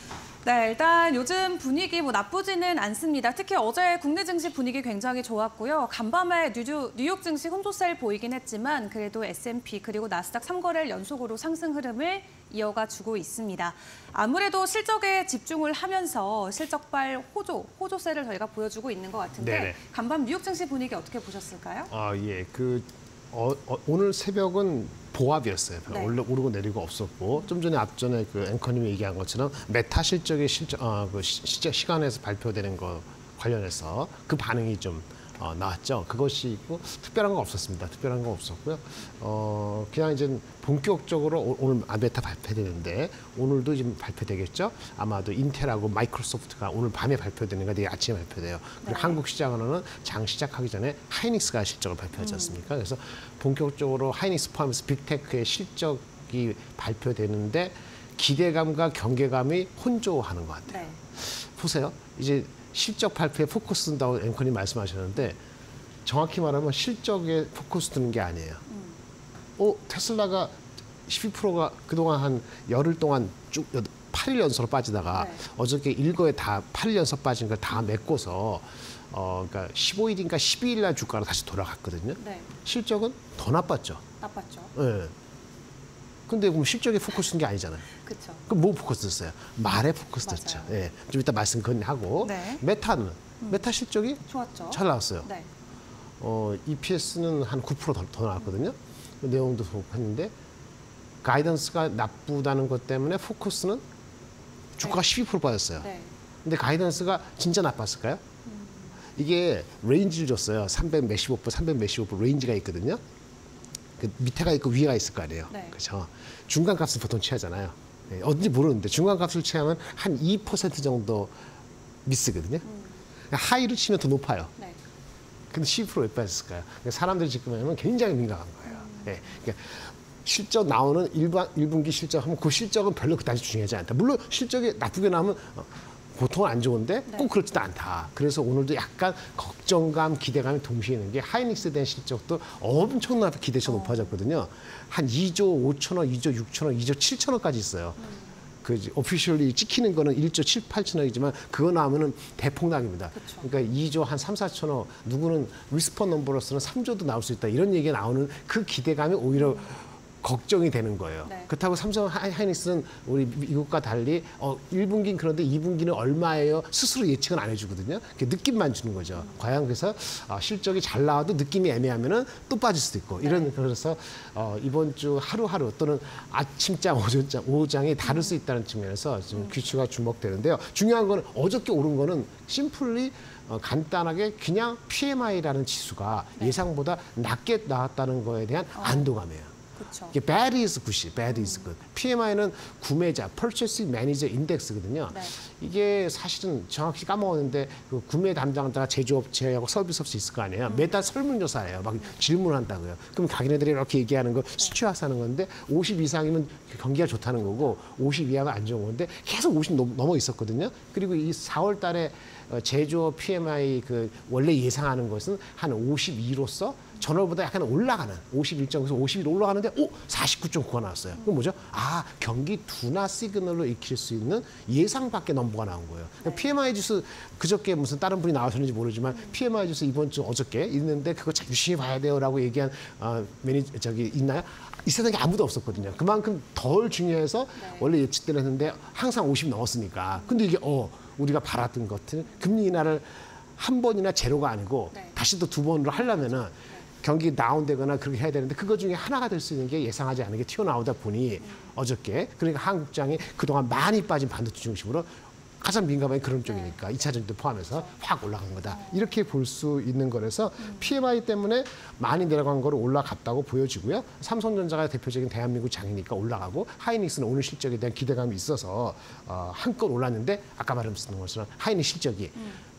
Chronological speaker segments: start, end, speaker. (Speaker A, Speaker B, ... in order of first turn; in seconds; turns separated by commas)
Speaker A: 0.4-21.9, Speaker B: 19.4-19.8, Speaker B: 21.9-65.4, Speaker A: 25.9-26.1, Speaker A: 48.8-49.2, Speaker A: 52.2-52.6, Speaker A: 60.7-61.0, Speaker B: 66.0-68.6, Speaker A: 68.7-69.0, Speaker B: 69.6-70.5, Speaker B: 71.0-84.0, Speaker A: 75.1-75.4, Speaker A: 82.2-82.5, Speaker A: 84.2-84.7, Speaker B: 84.7-85.1, Speaker B: 86.3-87.9, Speaker A: 87.9-88.4, Speaker B: 88.5-95.3, Speaker A: 90.2-90.8, Speaker A: 92.2-92.6, Speaker A: 94.3-95.5, Speaker B: 96.2-100.3, Speaker B: 101.2-103.8, Speaker B: 104.8-105.9, Speaker A: 105.8-106.1, Speaker B: 106.4-108.2, Speaker A: 108.5-108.9, Speaker B: 109.2-113.0, Speaker B: 114.0-121.3, Speaker A: 115.5-115.7, Speaker B: 122.0-122.6, Speaker A: 122.6-123.0, Speaker B: 123.3-124.5, Speaker B: 125.5-148.0, Speaker A: 128.7-129.2, Speaker A: 143.6-144.2, Speaker A: 148.0-148.3, Speaker B: 148.6-189.5, Speaker A: 153.1-153.5, Speaker A: 159.4-159.7, Speaker A: 161.2-161.5, Speaker A: 169.1-169.4, Speaker A: 173.2-173.5, Speaker A: 178.0-178.4, Speaker A: 179.3-179.6, Speaker A: 188.8-189.1, Speaker A: 189.8-190.2, Speaker B: 190.1-255.1, Speaker A: 191.3-191.7, Speaker A: 226.2-226.5, Speaker A: 229.1-229.4, Speaker A: 237.6-237.9, Speaker A: 240.1-240.4, Speaker A: 251.4-251.7, Speaker B: 255.6-272.4, Speaker A: 256.4-256.7, Speaker A: 258.7-259.1, Speaker A: 260.6-260.9, Speaker A: 272.4-272.6